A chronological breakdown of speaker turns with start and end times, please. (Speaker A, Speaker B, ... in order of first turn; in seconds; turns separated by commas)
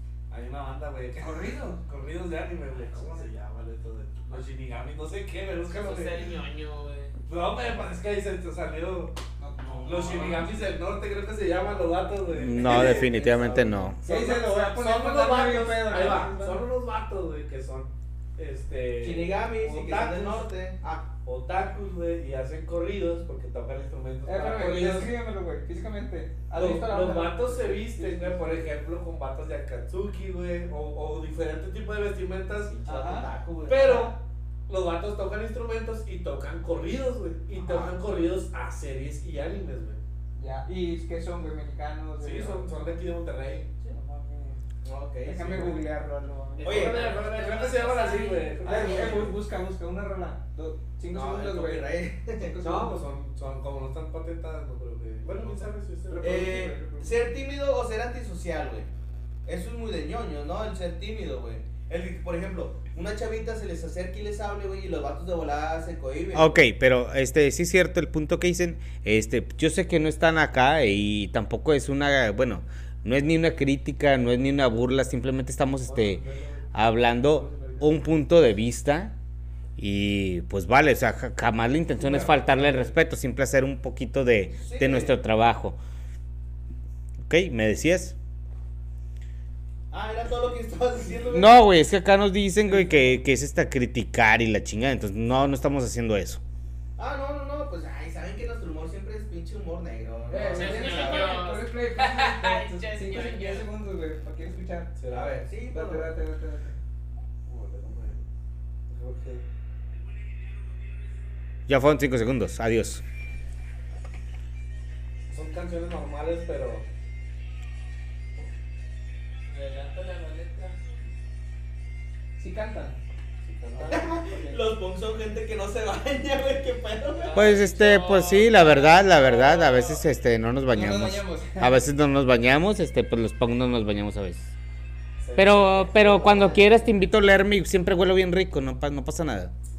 Speaker A: 0.3-6.3, Speaker B: 1.2-1.8, Speaker C: 5.7-7.1, Speaker A: 7.3-9.2, Speaker B: 9.4-10.7, Speaker A: 9.8-20.5, Speaker D: 12.3-14.0, Speaker B: 14.0-16.6, Speaker E: 19.0-21.1, Speaker A: 21.2-25.1, Speaker B: 24.2-28.7, Speaker A: 26.6-32.9, Speaker E: 32.8-34.1, Speaker B: 32.9-33.3, Speaker A: 33.7-34.2, Speaker A: 34.7-40.0, Speaker B: 40.4-42.9, Speaker A: 42.2-43.7, Speaker B: 43.8-44.6, Speaker E: 44.8-45.8, Speaker B: 45.2-53.0, Speaker A: 46.6-49.4, Speaker E: 46.6-47.1, Speaker C: 46.9-48.5, Speaker E: 51.1-52.5, Speaker A: 52.6-56.6, Speaker B: 55.3-57.3, Speaker E: 56.2-58.9, Speaker E: 59.5-66.6, Speaker D: 66.3-76.2, Speaker A: 75.8-78.0, Speaker D: 76.7-79.2, Speaker D: 79.8-85.8, Speaker A: 82.1-82.9, Speaker E: 84.6-85.2, Speaker D: 87.3-88.2, Speaker E: 89.9-91.6, Speaker D: 91.3-96.4, Speaker A: 92.8-93.0, Speaker E: 97.0-101.4, Speaker B: 100.3-105.0, Speaker C: 100.5-103.7, Speaker A: 105.0-105.4, Speaker E: 105.1-106.1, Speaker B: 105.7-106.8, Speaker A: 107.5-108.3, Speaker A: 108.9-109.4, Speaker D: 111.7-113.0, Speaker A: 115.3-116.9, Speaker C: 119.5-120.8, Speaker B: 122.4-123.0, Speaker A: 123.4-124.1, Speaker B: 123.7-124.7, Speaker E: 123.9-127.6, Speaker C: 127.1-130.0, Speaker D: 127.3-134.5, Speaker B: 130.7-131.8, Speaker A: 135.2-136.9, Speaker D: 135.4-139.5